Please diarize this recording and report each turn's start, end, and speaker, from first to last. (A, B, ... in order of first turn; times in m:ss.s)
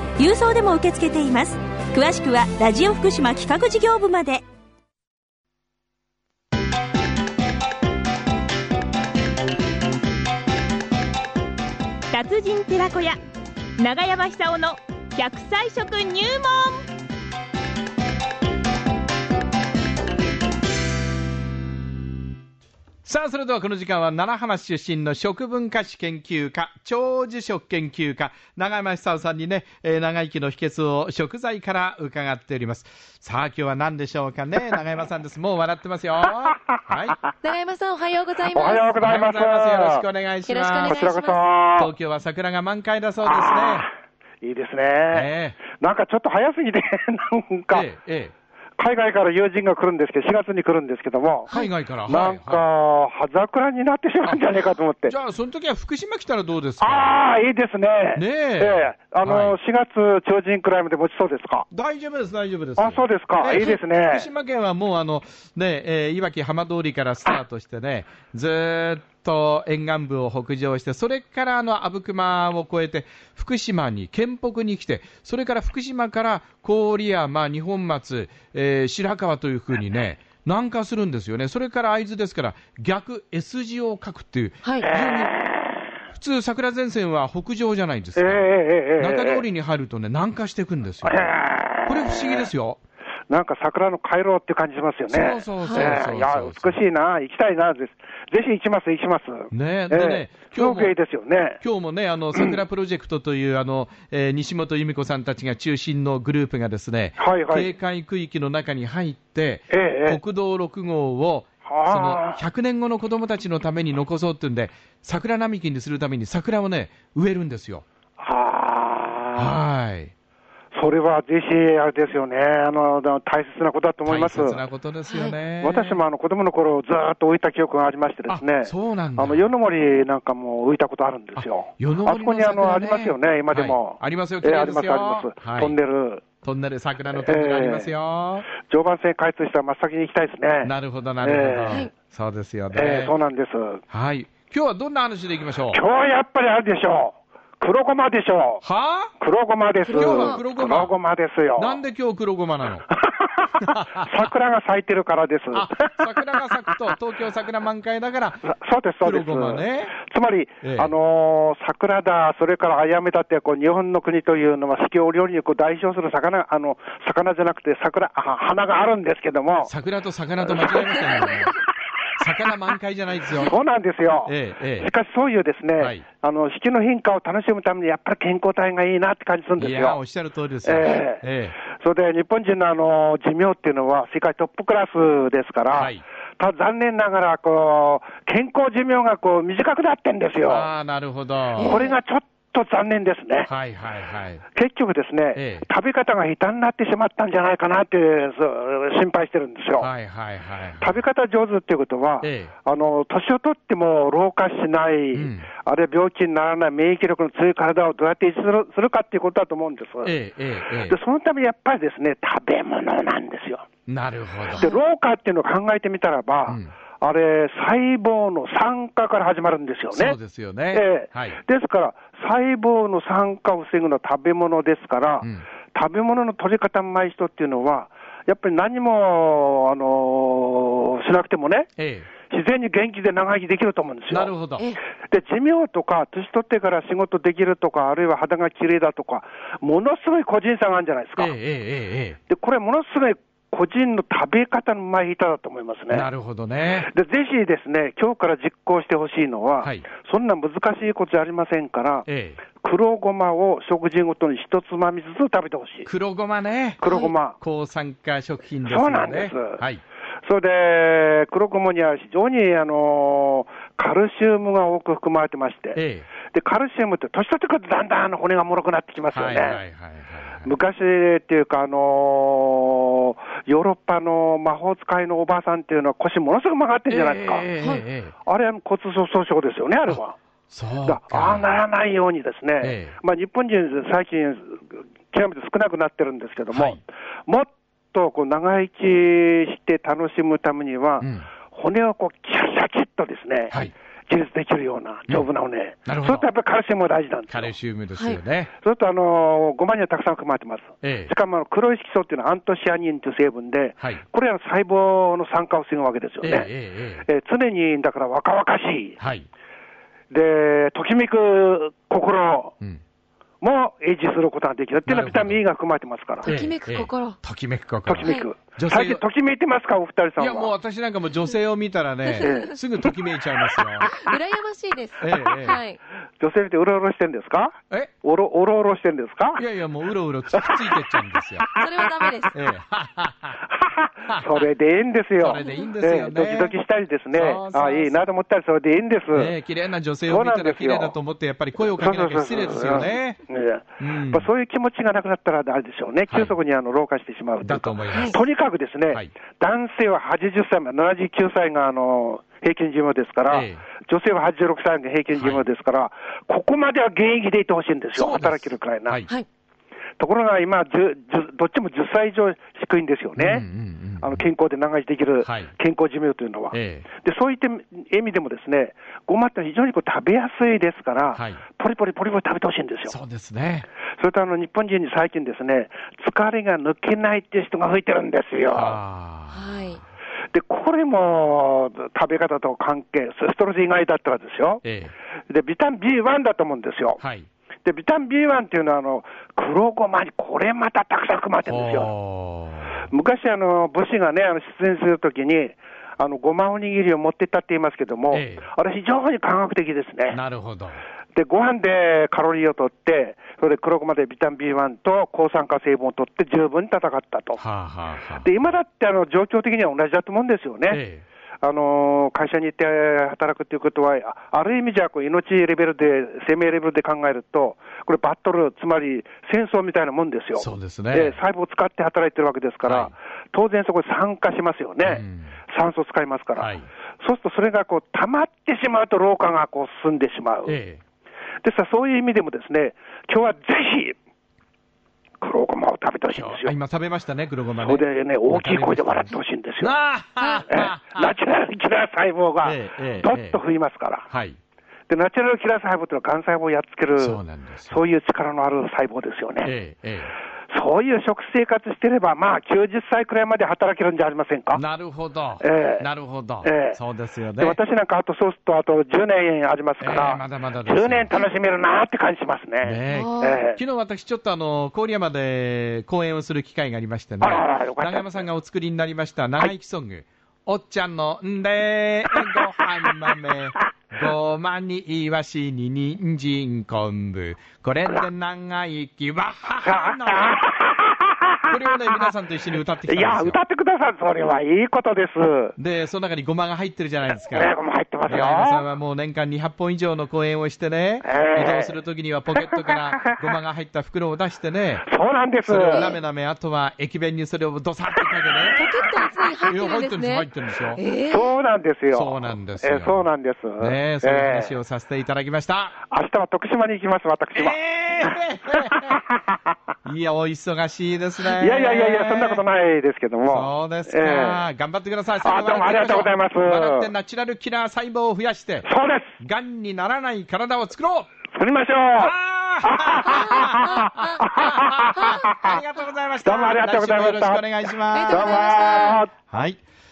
0:00.2-0:04.4 A
0:12.1-0:13.2 B
0:13.8-0:16.9 B
0:23.0-0:37.2 C
0:37.4-0:39.0 D
0:38.5-0:40.0 E
0:39.0-0:41.1 C
0:40.5-0:41.5 D
0:40.8-0:41.9 E
0:41.8-0:43.9 C
0:43.3-0:43.8 E
0:44.4-0:47.9 E
0:45.1-0:45.6 C
0:47.7-0:48.3 C
0:48.8-0:55.2 E
0:51.5-0:52.7 C
0:54.2-0:54.5 C
0:55.0-0:57.2 C
0:56.8-1:01.7 E
0:58.2-0:59.6 C
1:01.7-1:25.4 C
1:02.8-1:04.3 E
1:24.9-1:25.9 E
1:26.1-1:31.3 C
1:28.2-1:29.4 E
1:31.0-1:32.5 E
1:31.8-1:32.8 C
1:33.3-1:41.6 E
1:35.1-1:36.8 C
1:35.7-1:36.0 D
1:39.5-1:40.9 C
1:41.6-1:57.8 C
1:42.3-1:42.6 E
1:47.2-1:47.7 E
1:49.7-1:50.2 E
1:51.7-1:52.4 E
1:58.2-1:59.6 E
1:59.4-2:00.1 C
2:00.7-2:04.6 E
2:04.1-2:06.0 C
2:05.1-2:05.4 D
2:05.6-2:16.2 E
2:08.3-2:09.5 C
2:11.4-2:15.8 C
2:16.4-2:18.5 C
2:17.1-2:17.9 E
2:18.6-2:21.9 E
2:20.6-2:23.2 C
2:22.7-2:23.8 E
2:23.9-2:25.8 C
2:25.7-2:28.6 E
2:28.6-2:29.1 C
2:29.2-2:31.8 E
2:29.8-2:30.4 D
2:29.9-2:30.9 C
2:31.6-2:32.8 C
2:32.9-2:35.8 E
2:33.6-2:34.3 C
2:35.5-2:38.5 C
2:38.4-2:49.7 E
2:39.0-2:40.0 C
2:40.6-2:40.9 C
2:49.7-2:51.6 C
2:50.4-2:51.6 E
2:52.2-2:53.6 C
2:53.4-3:00.0 E
2:54.3-2:54.9 C
2:55.8-2:56.0 C
2:59.6-3:01.6 C
3:00.6-3:10.7 E
3:05.7-3:06.0 C
3:10.4-3:11.8 C
3:11.6-3:12.0 D
3:11.6-3:13.5 E
3:13.5-3:14.4 C
3:14.5-3:19.9 E
3:15.4-3:15.7 C
3:19.8-3:21.0 C
3:20.8-3:30.1 E
3:22.2-3:22.5 C
3:25.1-3:25.5 C
3:30.0-3:31.0 C
3:30.9-3:33.7 E
3:33.9-3:34.7 C
3:34.5-3:40.2 E
3:36.5-3:36.7 C
3:39.9-3:41.4 C
3:40.7-3:51.7 E
3:51.8-3:52.1 C
3:52.3-3:54.4 E
3:54.1-3:54.8 C
3:55.0-4:01.4 E
4:01.2-4:02.2 C
4:02.3-4:06.1 E
4:05.9-4:06.9 C
4:06.8-4:15.9 E
4:09.6-4:09.9 C
4:12.1-4:12.4 C
4:15.9-4:19.8 C
4:16.8-4:17.4 E
4:18.6-4:19.6 E
4:20.2-4:29.6 E
4:25.8-4:26.1 C
4:29.1-4:30.5 C
4:30.4-4:37.5 E
4:36.9-4:38.1 C
4:38.2-4:40.2 E
4:40.5-4:41.6 C
4:40.8-4:57.5 E
4:42.6-4:43.0 C
4:46.5-4:46.8 C
4:51.0-4:51.3 C
4:55.9-4:56.3 C
4:57.3-4:58.5 C
4:58.6-5:06.5 E
5:00.8-5:01.1 C
5:06.2-5:07.1 C
5:07.1-5:09.0 E
5:09.0-5:09.3 C
5:10.1-5:12.6 E
5:13.4-5:16.3 E
5:14.9-5:15.4 C
5:16.2-5:17.2 D
5:16.3-5:19.0 C
5:17.9-5:20.5 E
5:18.0-5:18.3 D
5:20.2-5:24.0 C
5:22.1-5:22.5 D
5:22.2-5:22.9 E
5:23.8-5:25.8 D
5:25.0-5:25.6 C
5:26.2-5:29.4 E
5:29.4-5:31.5 C
5:30.3-5:30.7 E
5:31.5-5:32.0 E
5:31.6-5:32.4 D
5:32.3-5:33.4 C
5:33.6-5:39.4 E
5:34.1-5:34.4 C
5:35.2-5:36.6 C
5:37.1-5:38.1 C
5:39.1-5:43.2 C
5:40.1-5:41.0 E
5:41.7-5:59.0 E
5:43.8-5:44.3 C
5:46.1-5:46.4 C
5:47.4-5:48.2 C
5:53.3-5:53.6 C
5:55.1-5:55.5 C
5:58.0-5:59.1 C
6:00.0-6:03.5 E
6:03.2-6:04.2 C
6:04.0-6:13.0 E
6:05.2-6:05.5 C
6:06.5-6:06.9 C
6:11.2-6:11.4 C
6:12.9-6:13.7 C
6:14.0-6:18.8 E
6:18.5-6:19.8 C
6:19.3-6:19.8 D
6:20.3-6:24.6 E
6:24.6-6:24.9 C
6:25.3-6:27.0 E
6:27.0-6:27.3 C
6:27.6-6:31.9 E
6:31.5-6:32.8 C
6:32.9-6:40.2 E
6:38.1-6:38.5 C
6:40.1-6:40.8 C
6:41.1-6:47.4 E
6:47.4-6:48.3 C
6:48.2-6:50.8 E
6:50.7-6:51.0 C
6:51.4-7:10.6 E
7:00.4-7:01.2 C
7:02.6-7:02.9 C
7:04.8-7:05.3 C
7:06.4-7:06.7 C
7:10.5-7:10.8 C
7:11.4-7:14.0 E
7:15.2-7:16.6 E
7:16.1-7:21.2 C
7:17.6-7:19.8 E
7:20.2-7:20.5 D
7:20.5-7:24.1 E
7:22.4-7:23.4 C
7:24.1-7:24.4 C
7:24.9-7:29.5 E
7:27.0-7:27.8 C
7:29.4-7:30.1 C
7:30.5-7:34.6 E
7:34.5-7:37.6 C
7:35.4-7:35.9 E
7:36.4-7:36.8 E
7:37.4-7:43.6 E
7:39.8-7:41.2 C
7:42.6-8:00.4 C
7:42.9-7:43.4 D
7:47.2-7:48.2 E
7:59.6-8:02.1 E
8:01.5-8:03.4 C
8:02.8-8:05.6 E
8:05.6-8:07.6 C
8:07.3-8:08.6 E
8:08.1-8:14.9 C
8:11.0-8:11.8 E
8:12.4-8:13.1 E
8:14.9-8:15.9 E
8:15.5-8:18.7 C
8:18.6-8:21.3 D
8:19.5-8:20.8 C
8:21.0-8:24.6 E
8:21.9-8:23.1 C
8:23.6-8:25.8 C
8:25.9-8:29.4 E
8:27.4-8:29.0 C
8:29.8-8:32.4 C
8:31.3-8:34.4 E
8:33.3-8:38.7 C
8:35.2-8:36.9 E
8:38.6-8:39.1 E
8:39.2-8:41.1 C
8:41.3-8:45.6 E
8:42.0-8:49.6 C
8:46.2-8:49.1 E
8:47.9-8:49.0 D